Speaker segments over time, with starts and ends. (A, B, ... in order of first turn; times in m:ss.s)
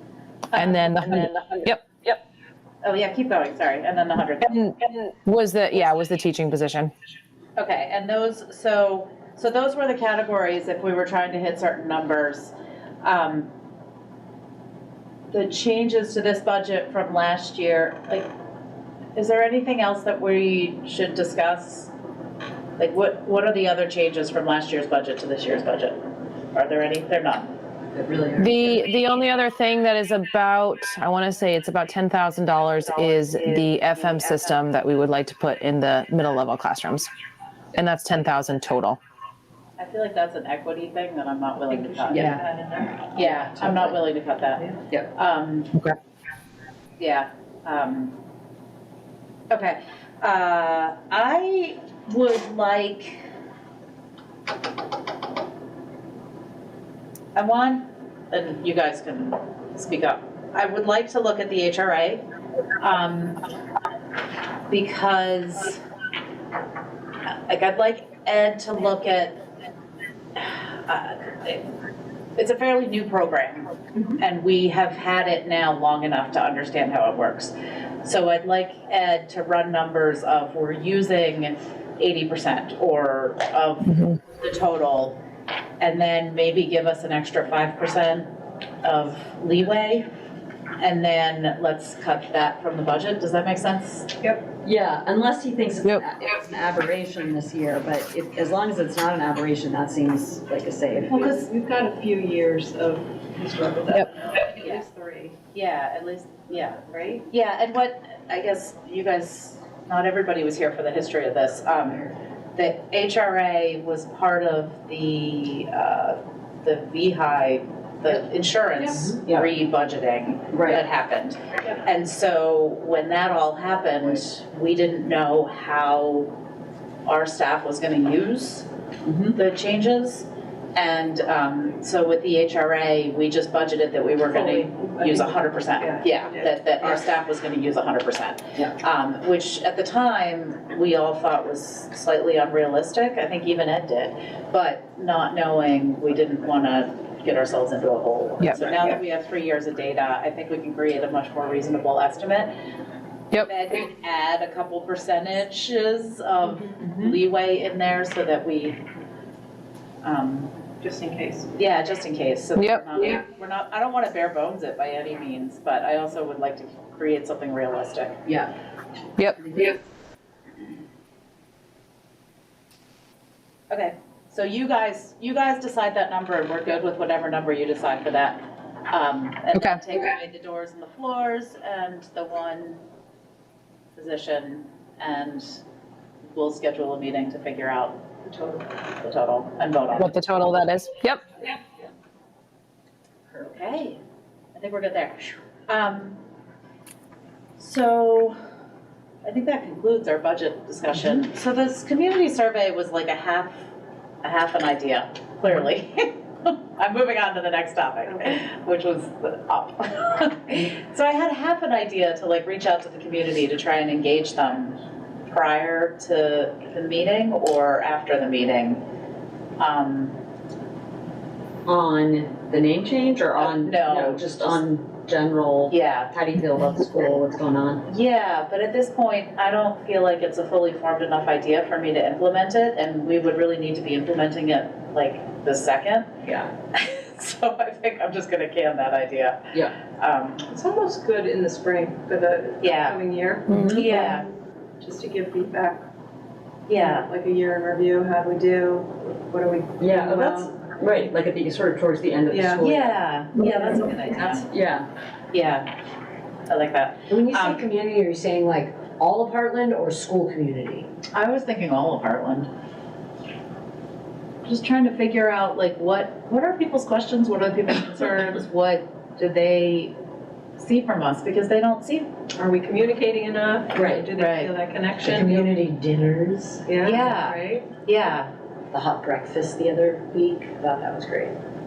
0:00.5-0:01.3 A
0:00.5-0:02.2 B
0:02.8-0:04.6 A
0:04.4-0:06.9 B
0:07.6-0:13.5 A
0:15.3-0:18.3 A
0:19.1-0:21.9 A
0:22.8-0:26.0 A
0:26.5-0:27.5 A
0:27.9-0:28.6 C
0:28.4-0:37.1 B
0:32.9-0:34.6 A
0:37.7-0:39.0 B
0:39.8-0:42.4 A
0:41.7-0:43.0 D
0:42.1-0:42.4 C
0:43.1-0:45.7 A
0:47.0-0:48.1 A
0:49.5-0:53.2 A
0:57.4-1:02.2 A
1:02.8-1:03.4 A
1:04.7-1:05.8 A
1:07.5-1:09.4 A
1:10.3-1:11.7 A
1:12.4-1:25.2 A
1:23.9-1:24.2 B
1:25.8-1:28.3 A
1:28.8-1:30.1 A
1:30.8-1:34.1 A
1:34.6-1:41.2 C
1:41.1-1:45.4 D
1:45.5-2:06.3 A
1:46.9-1:47.2 D
1:59.0-1:59.4 C
2:00.5-2:00.8 C
2:07.0-2:08.7 A
2:09.0-2:09.3 C
2:09.3-2:32.5 A
2:14.3-2:17.0 D
2:33.4-2:38.8 A
2:36.6-2:37.1 D
2:40.0-2:40.5 A
2:40.8-2:41.5 D
2:41.5-2:48.3 A
2:42.6-2:43.2 B
2:49.2-2:49.8 B
2:53.7-3:02.8 A
2:59.5-2:59.8 B
3:03.9-3:05.6 A
3:06.2-3:08.0 A
3:08.3-3:08.6 D
3:08.8-3:10.2 A
3:09.9-3:11.4 B
3:13.4-3:14.0 A
3:14.6-3:16.2 A
3:17.6-3:18.4 A
3:19.2-3:23.6 A
3:24.2-3:38.8 A
3:28.0-3:28.4 D
3:39.6-3:40.2 A
3:41.6-3:47.8 C
3:43.4-3:44.6 A
3:45.7-3:46.1 A
3:47.9-3:56.1 A
3:56.7-4:00.4 A
4:00.4-4:04.2 D
4:02.6-4:03.0 A
4:03.5-4:03.9 C
4:03.5-4:03.8 B
4:03.7-4:04.3 A
4:04.8-4:05.8 D
4:06.7-4:07.1 A
4:06.8-4:10.5 D
4:09.8-4:13.0 C
4:12.3-4:12.6 D
4:12.6-4:14.5 A
4:14.4-4:14.8 C
4:15.3-4:15.7 A
4:16.5-4:17.6 A
4:17.1-4:20.9 E
4:21.1-4:22.5 A
4:24.4-4:29.9 A
4:30.6-4:32.1 A
4:32.4-4:35.5 D
4:33.7-4:34.1 C
4:34.2-4:34.5 A
4:35.0-4:36.6 E
4:36.6-4:37.6 D
4:36.8-4:38.3 A
4:38.7-4:41.3 E